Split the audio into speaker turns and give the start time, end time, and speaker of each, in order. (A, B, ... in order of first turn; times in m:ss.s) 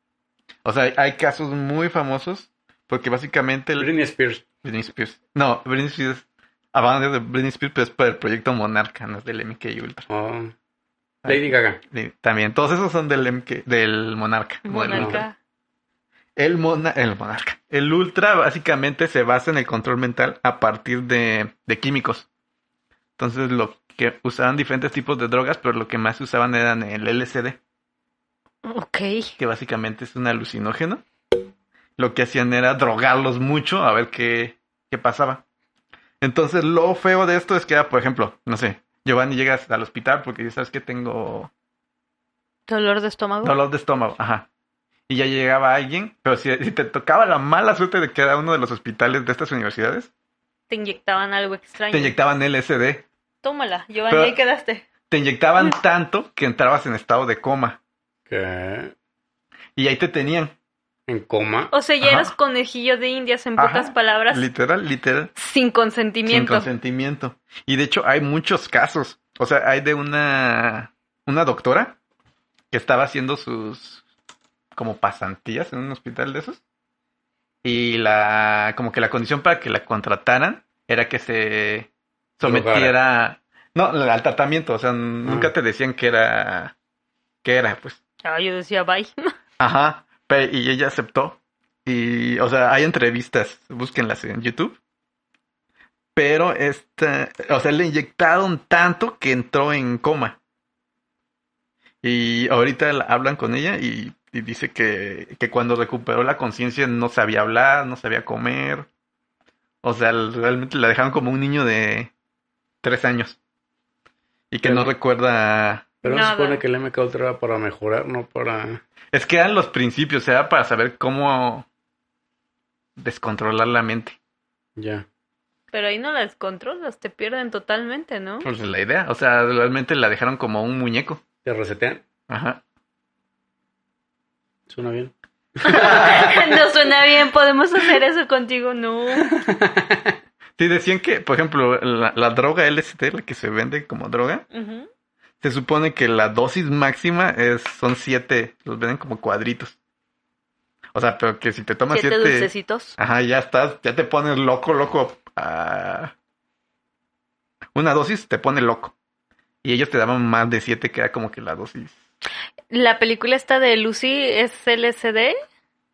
0:00.6-0:03.9 A
0:03.8-0:04.4 B
0:04.6-0:10.0 A
0:10.1-0:10.5 B
0:11.2-0:15.2 A
0:11.2-0:11.8 B
0:14.6-0:15.4 C
0:14.9-0:15.2 B
0:16.4-0:22.3 A
0:23.2-0:27.6 A
0:28.6-0:29.3 C
0:29.4-0:31.0 A
0:32.0-0:35.4 A
0:36.2-0:41.5 A
0:42.7-0:43.6 C
0:43.4-0:44.5 A
0:45.1-0:50.1 A
0:50.7-0:52.1 C
0:51.9-0:53.1 A
0:53.4-0:54.8 C
0:54.1-0:54.4 A
0:55.1-0:57.8 A
0:58.3-0:58.9 B
0:59.8-1:00.5 A
1:01.1-1:01.7 B
1:01.7-1:04.5 C
1:02.0-1:02.3 A
1:03.6-1:05.3 A
1:05.4-1:06.7 C
1:06.3-1:12.0 A
1:12.7-1:14.0 A
1:14.8-1:16.6 A
1:17.6-1:26.7 A
1:22.4-1:22.9 B
1:25.3-1:25.5 B
1:27.4-1:28.0 A
1:28.2-1:29.1 C
1:29.6-1:34.8 A
1:36.2-1:40.4 A
1:42.0-1:48.9 A
1:49.8-1:52.1 A
1:52.8-1:53.4 A
1:54.5-1:55.9 A
1:54.6-1:54.9 B
1:56.0-1:58.8 B
1:56.0-1:56.6 C
1:59.1-2:01.7 A
2:03.0-2:04.2 A
2:04.8-2:05.1 B
2:05.7-2:08.5 C
2:08.4-2:11.2 A
2:11.4-2:12.0 B
2:12.3-2:12.6 A
2:14.7-2:16.4 B
2:15.6-2:19.3 C
2:15.7-2:16.4 A
2:19.2-2:20.2 B
2:20.6-2:24.4 A
2:24.5-2:24.9 C
2:25.4-2:29.8 A
2:30.9-2:36.1 A
2:31.9-2:33.0 C
2:37.8-2:38.9 A
2:39.6-2:42.0 A
2:42.7-2:45.4 C